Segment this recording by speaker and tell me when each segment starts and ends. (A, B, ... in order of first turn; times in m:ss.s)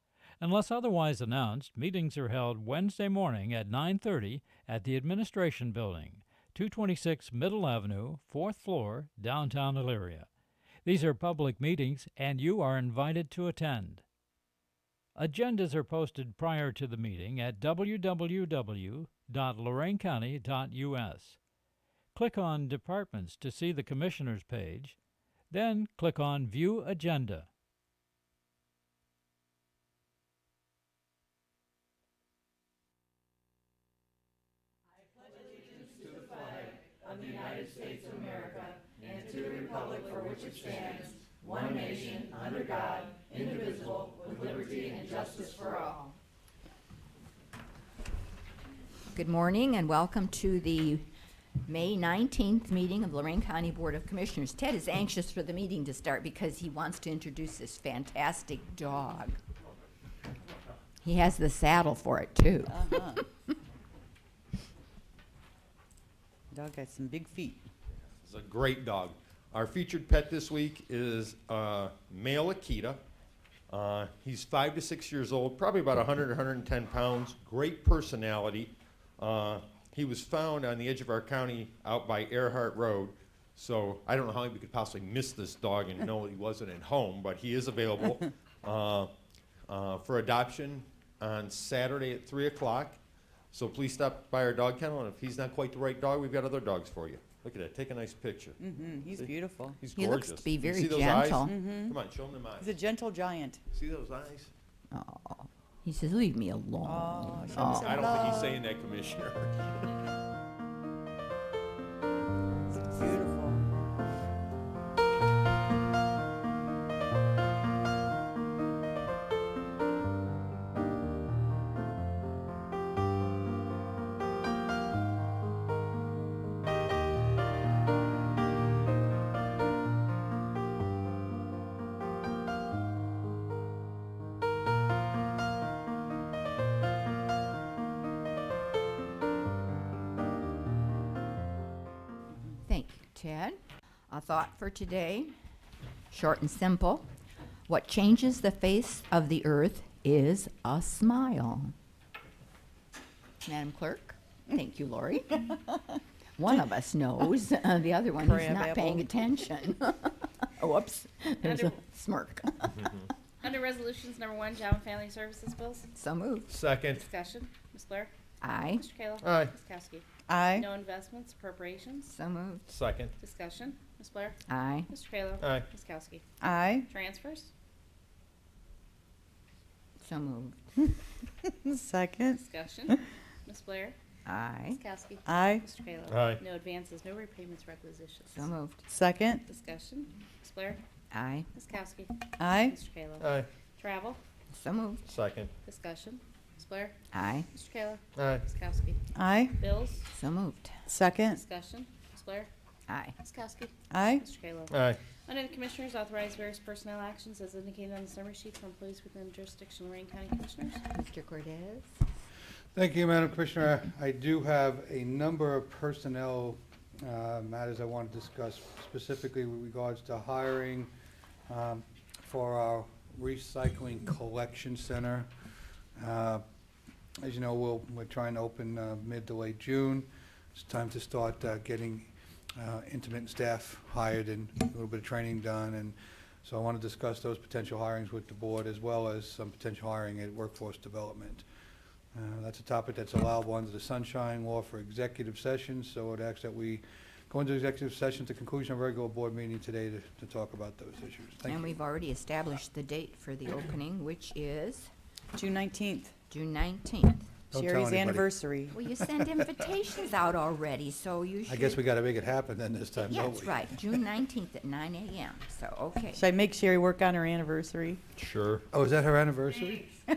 0:00.4-0:10.3 A
0:10.8-0:14.0 A
0:15.2-0:21.4 A
0:22.2-0:25.0 A
0:25.5-0:27.5 A
0:37.0-0:45.9 B
0:49.1-0:51.0 C
0:51.6-0:59.4 C
1:01.0-1:03.3 C
1:02.7-1:03.2 B
1:06.5-1:07.6 B
1:08.2-1:13.0 D
1:13.7-1:29.1 D
1:29.7-1:33.0 D
1:33.5-1:38.6 D
1:38.6-1:39.8 B
1:39.2-1:42.8 D
1:40.0-1:41.5 C
1:41.4-1:42.0 B
1:42.6-1:43.6 B
1:43.7-1:44.5 D
1:44.9-1:48.0 C
1:46.8-1:48.6 B
1:47.8-1:49.8 D
1:52.9-1:53.6 B
2:22.6-2:23.6 C
2:24.1-2:25.3 C
2:26.1-2:27.0 C
2:27.7-2:31.7 C
2:33.4-2:35.6 C
2:36.4-2:43.0 C
2:38.2-2:39.0 B
2:41.4-2:41.8 E
2:43.4-2:45.9 E
2:46.0-2:46.5 C
2:46.5-2:47.0 D
2:47.0-2:48.1 E
2:48.4-2:48.8 C
2:48.8-2:52.1 E
2:49.2-2:49.5 D
2:50.3-2:50.7 B
2:52.1-2:52.7 C
2:52.7-2:53.1 D
2:53.2-2:54.4 E
2:54.5-2:54.9 C
2:54.9-2:56.2 E
2:55.4-2:55.7 D
2:56.4-2:56.9 B
2:56.9-2:57.5 E
3:00.0-3:00.8 C
3:01.5-3:02.4 B
3:02.3-3:04.0 E
3:04.3-3:04.8 C
3:04.7-3:08.5 E
3:05.3-3:05.6 B
3:06.1-3:06.4 D
3:08.3-3:08.8 C
3:08.9-3:09.4 B
3:09.5-3:10.8 E
3:11.1-3:11.5 C
3:11.6-3:14.2 E
3:12.4-3:12.7 B
3:13.2-3:13.5 D
3:14.5-3:15.0 C
3:15.1-3:15.5 D
3:15.6-3:17.0 E
3:17.1-3:17.5 C
3:17.5-3:19.0 E
3:18.2-3:18.4 D
3:19.2-3:19.6 B
3:19.6-3:20.0 E
3:20.1-3:20.8 C
3:20.9-3:21.4 B
3:21.3-3:22.5 E
3:22.9-3:23.2 C
3:23.2-3:30.8 E
3:23.9-3:24.2 B
3:24.7-3:25.0 D
3:30.9-3:31.9 C
3:32.7-3:40.9 F
3:41.5-3:45.3 F
3:46.0-3:46.4 F
3:47.2-4:01.4 F
4:02.2-4:11.7 F
4:11.5-4:14.9 C
4:15.3-4:16.1 B
4:16.3-4:17.3 C
4:17.5-4:18.3 F
4:17.5-4:18.8 B
4:18.7-4:21.8 C
4:21.5-4:23.6 F
4:23.1-4:26.2 C
4:26.2-4:28.0 B
4:28.2-4:28.6 D
4:28.7-4:29.9 F